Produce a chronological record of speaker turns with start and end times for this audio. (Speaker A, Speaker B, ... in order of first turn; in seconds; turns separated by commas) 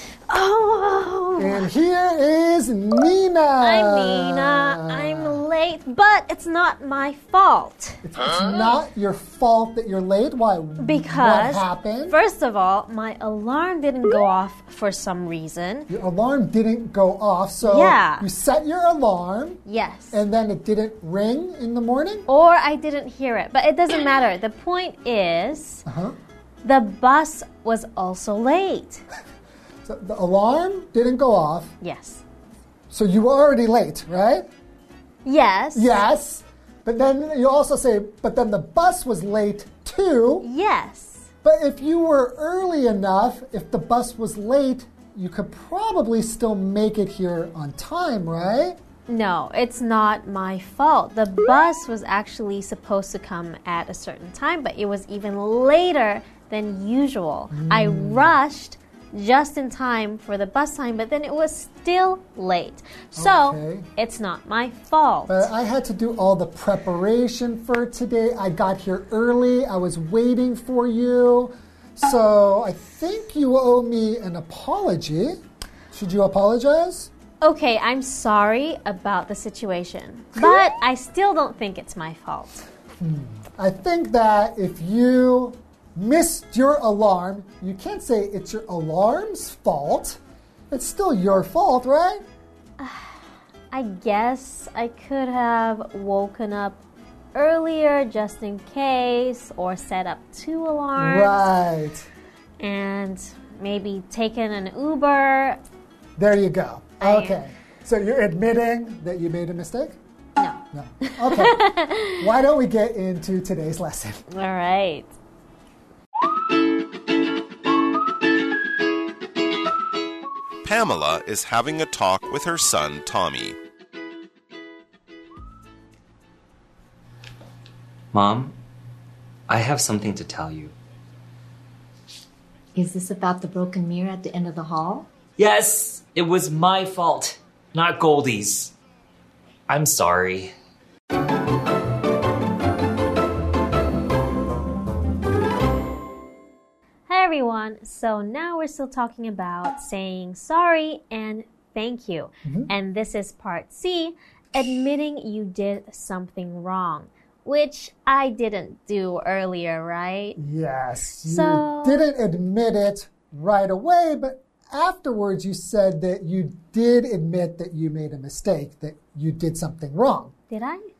Speaker A: 0.3-1.7, Speaker B: 1.4-5.5, Speaker A: 3.6-8.0, Speaker B: 8.0-12.2, Speaker A: 10.8-15.9, Speaker B: 15.9-19.6, Speaker A: 17.6-18.3, Speaker A: 19.7-20.2, Speaker B: 20.1-22.3, Speaker A: 22.3-25.8, Speaker B: 25.9-26.1, Speaker A: 26.6-29.0, Speaker B: 29.9-31.8, Speaker A: 31.8-32.2, Speaker B: 32.9-34.5, Speaker A: 35.2-36.0, Speaker B: 35.8-40.5, Speaker A: 40.4-41.3, Speaker B: 41.4-48.8, Speaker A: 49.1-65.5, Speaker B: 57.5-58.4, Speaker B: 63.2-63.9, Speaker B: 65.3-75.4, Speaker B: 75.9-77.1, Speaker A: 77.4-82.7, Speaker B: 80.3-80.7, Speaker B: 83.0-90.2, Speaker B: 90.7-92.2, Speaker A: 92.8-96.8, Speaker A: 97.3-101.4, Speaker B: 101.0-102.1, Speaker A: 102.6-105.6, Speaker B: 106.2-110.0, Speaker A: 107.0-107.4, Speaker A: 110.4-112.3, Speaker B: 110.7-114.3, Speaker A: 114.3-115.1, Speaker C: 120.6-123.6, Speaker D: 128.1-128.6, Speaker D: 129.5-130.8, Speaker E: 132.8-135.1, Speaker D: 135.4-138.7, Speaker D: 139.7-140.6, Speaker A: 147.1-160.4, Speaker B: 152.4-152.7, Speaker B: 160.4-170.3, Speaker A: 161.2-162.0, Speaker A: 170.5-170.9